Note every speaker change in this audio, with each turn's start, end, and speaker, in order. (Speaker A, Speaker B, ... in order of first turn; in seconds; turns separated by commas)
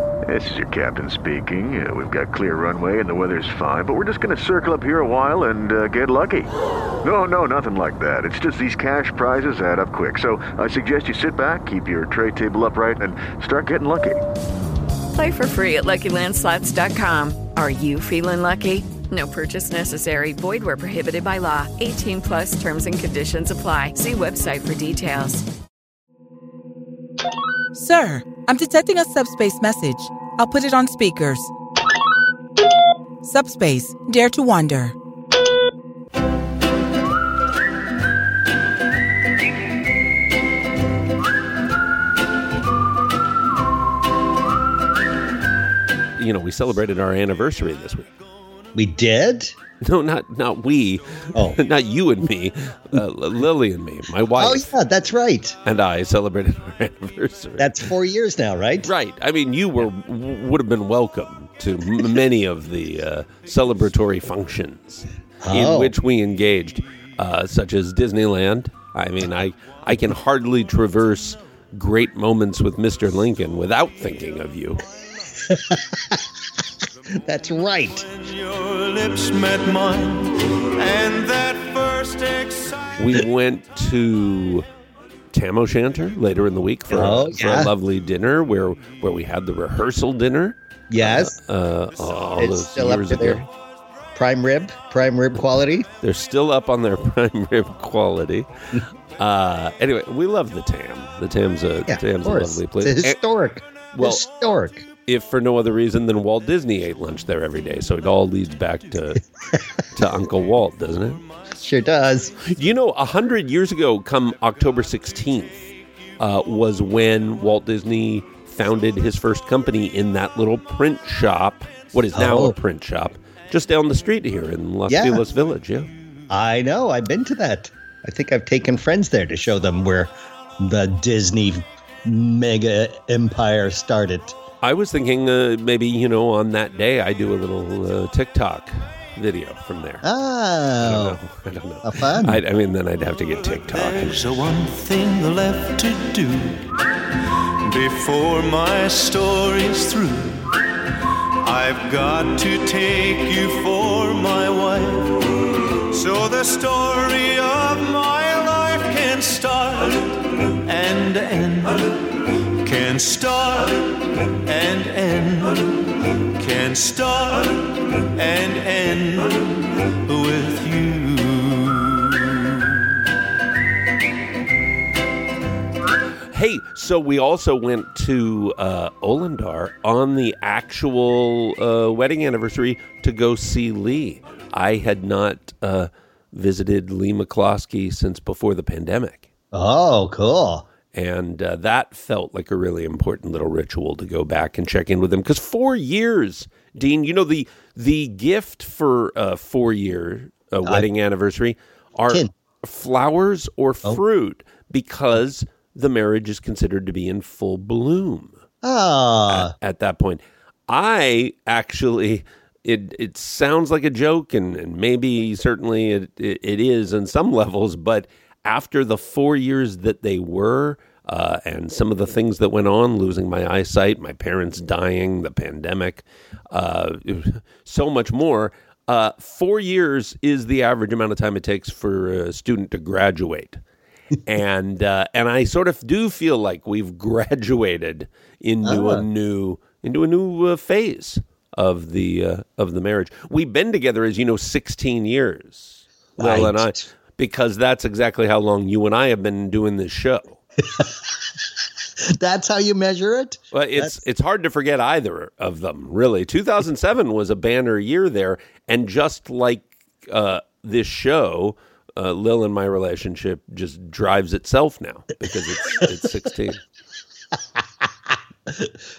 Speaker A: 0.3-6.5, Speaker A: 7.0-14.2, Speaker B: 15.1-25.4, Speaker C: 27.7-31.5, Speaker C: 33.2-34.9, Speaker D: 46.2-48.1, Speaker E: 48.7-49.5, Speaker D: 49.8-54.7, Speaker E: 51.3-51.6, Speaker E: 54.4-55.5, Speaker D: 55.6-57.7, Speaker E: 57.6-58.9, Speaker D: 58.8-74.8, Speaker E: 65.4-65.9, Speaker E: 75.3-76.3, Speaker E: 77.1-78.1, Speaker F: 78.1-83.2, Speaker D: 83.0-84.7, Speaker D: 85.3-93.5, Speaker E: 86.9-87.7, Speaker E: 90.9-91.4, Speaker E: 92.3-93.5, Speaker E: 94.1-95.9, Speaker D: 96.0-103.2, Speaker E: 101.9-104.8, Speaker D: 103.9-104.2, Speaker D: 105.0-109.2, Speaker D: 109.9-111.2, Speaker E: 111.6-112.3, Speaker D: 112.4-125.9, Speaker E: 122.1-122.6, Speaker E: 124.9-125.2, Speaker E: 126.3-134.4, Speaker D: 134.6-140.0, Speaker E: 140.0-141.2, Speaker D: 140.8-144.2, Speaker E: 141.8-142.4, Speaker F: 143.4-146.7, Speaker F: 147.6-150.6, Speaker F: 151.4-172.5, Speaker D: 176.3-189.3, Speaker E: 189.5-190.7, Speaker D: 190.9-208.4, Speaker E: 208.6-209.5, Speaker D: 209.3-233.6, Speaker D: 234.2-250.4, Speaker E: 238.6-239.0, Speaker E: 246.2-246.9, Speaker E: 250.7-251.1, Speaker E: 252.0-253.9, Speaker D: 253.5-266.6